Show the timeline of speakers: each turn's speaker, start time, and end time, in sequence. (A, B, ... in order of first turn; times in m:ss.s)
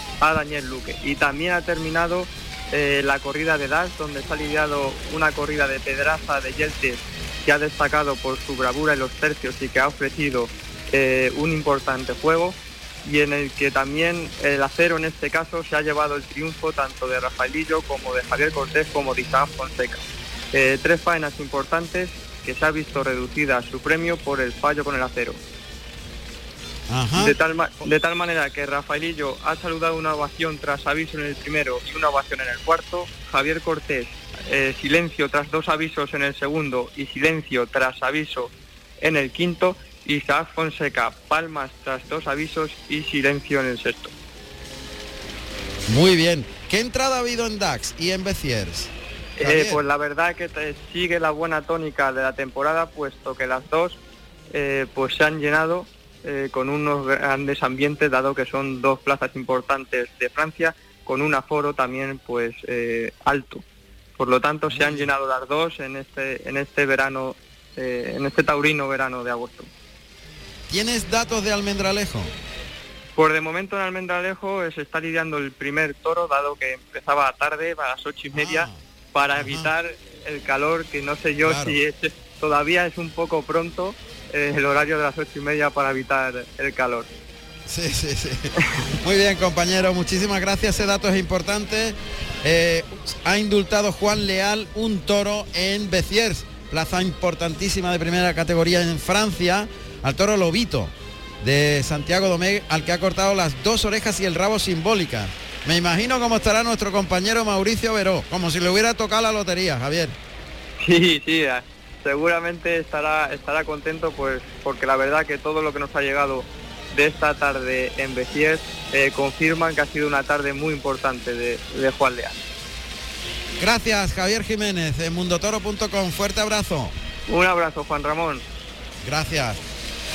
0:00.2-0:20.0 A
0:20.5-0:25.4 A
0:26.9-0:27.3 B
0:27.2-0:44.1 A
0:45.9-0:49.8 B
0:49.4-0:54.0 A
0:54.5-1:03.6 A
1:04.2-1:09.7 A
1:04.7-1:05.0 B
1:10.7-1:12.3 B
1:13.2-1:27.1 A
1:18.3-1:18.8 B
1:19.4-1:19.7 B
1:21.4-1:21.8 B
1:27.7-1:50.2 B
1:50.8-2:02.4 A
2:03.6-2:06.9 B
2:07.3-2:08.4 A
2:09.0-2:09.6 B